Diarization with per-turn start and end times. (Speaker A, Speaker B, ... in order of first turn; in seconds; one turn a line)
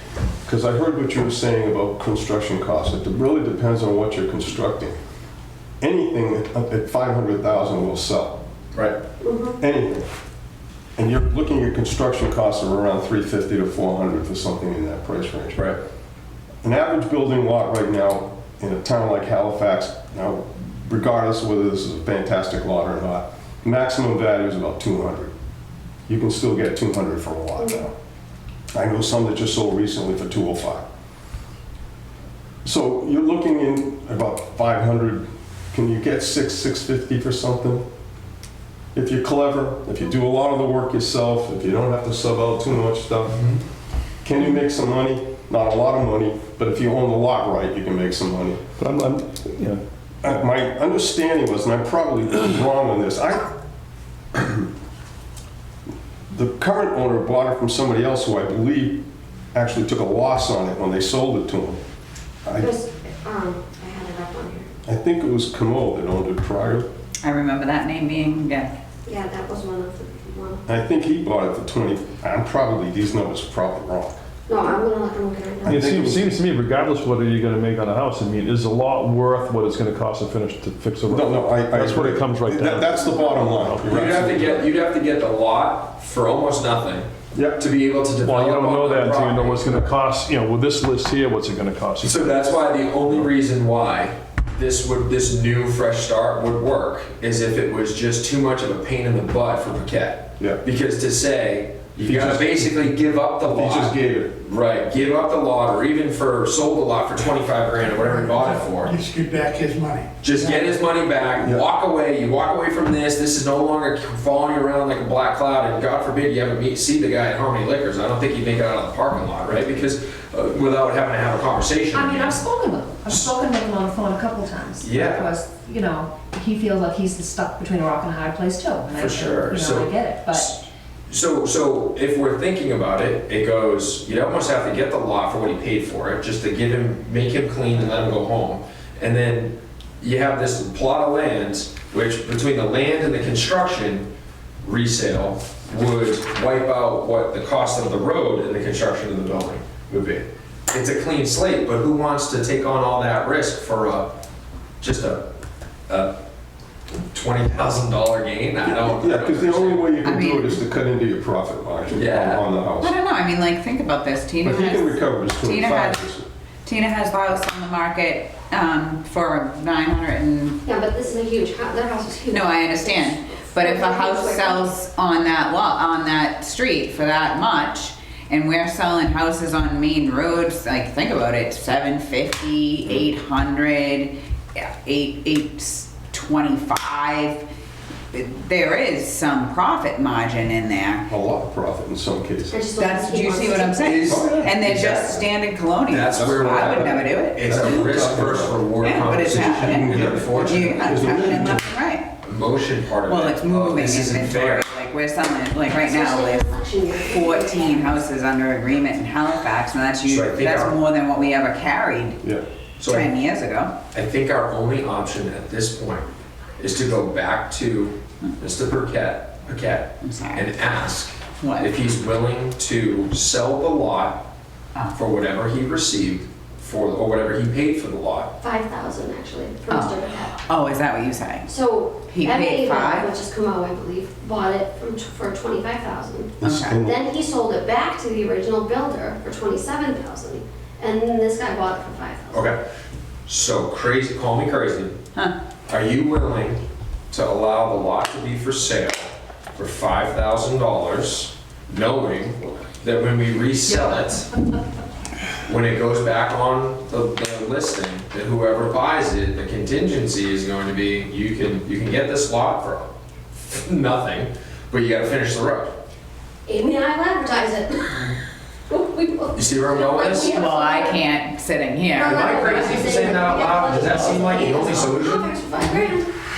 Speaker A: 0.4-5.0
Speaker A: 5.8-8.4
Speaker B: 9.2-9.6
Speaker A: 9.6-10.1
Speaker A: 11.0-15.8
Speaker A: 16.6-25.3
Speaker A: 26.1-27.9
Speaker A: 28.7-30.8
Speaker A: 32.6-37.8
Speaker A: 38.9-43.5
Speaker A: 44.2-48.6
Speaker C: 48.8-49.8
Speaker A: 50.2-53.5
Speaker A: 54.3-54.7
Speaker A: 56.3-61.8
Speaker B: 62.6-64.7
Speaker A: 64.8-66.9
Speaker D: 67.2-68.7
Speaker B: 69.0-70.6
Speaker A: 70.7-74.2
Speaker B: 74.5-75.8
Speaker A: 75.6-76.3
Speaker C: 75.7-84.5
Speaker A: 81.1-84.4
Speaker E: 83.8-89.9
Speaker A: 87.3-87.6
Speaker C: 88.2-92.3
Speaker E: 92.0-109.0
Speaker A: 102.0-102.7
Speaker A: 103.4-104.3
Speaker F: 108.0-110.1
Speaker E: 110.2-122.4
Speaker A: 111.4-111.6
Speaker G: 121.9-130.5
Speaker E: 124.8-125.3
Speaker E: 128.9-144.1
Speaker E: 144.6-154.2
Speaker E: 154.8-155.3
Speaker E: 155.9-156.2
Speaker E: 157.1-159.9
Speaker A: 158.6-162.9
Speaker D: 160.0-160.6
Speaker E: 161.9-162.4
Speaker D: 162.8-166.0
Speaker A: 164.4-166.2
Speaker D: 166.6-170.6
Speaker B: 170.6-174.8
Speaker D: 172.3-187.4
Speaker D: 188.1-191.1
Speaker A: 191.1-192.6
Speaker B: 192.5-194.0
Speaker D: 192.7-197.8
Speaker A: 193.8-194.6
Speaker E: 193.8-195.2
Speaker E: 195.9-201.3
Speaker A: 196.1-201.7
Speaker D: 198.8-202.1
Speaker E: 202.2-204.7
Speaker D: 203.1-212.2
Speaker B: 205.7-207.9
Speaker E: 210.0-210.8
Speaker E: 212.8-213.1
Speaker D: 212.8-213.7
Speaker E: 213.9-224.3
Speaker D: 220.0-220.5
Speaker D: 221.4-221.7
Speaker E: 224.9-228.3
Speaker B: 228.4-230.4
Speaker D: 229.7-231.5
Speaker B: 231.4-242.4
Speaker D: 232.1-233.1
Speaker A: 236.4-237.0
Speaker D: 236.4-236.8
Speaker E: 242.3-242.6
Speaker E: 243.3-245.0
Speaker E: 245.7-254.3
Speaker E: 255.4-262.9
Speaker E: 263.5-265.7
Speaker B: 266.4-268.2
Speaker B: 268.7-271.0
Speaker E: 269.3-270.3
Speaker D: 270.2-272.9
Speaker B: 271.9-276.1
Speaker E: 272.0-275.3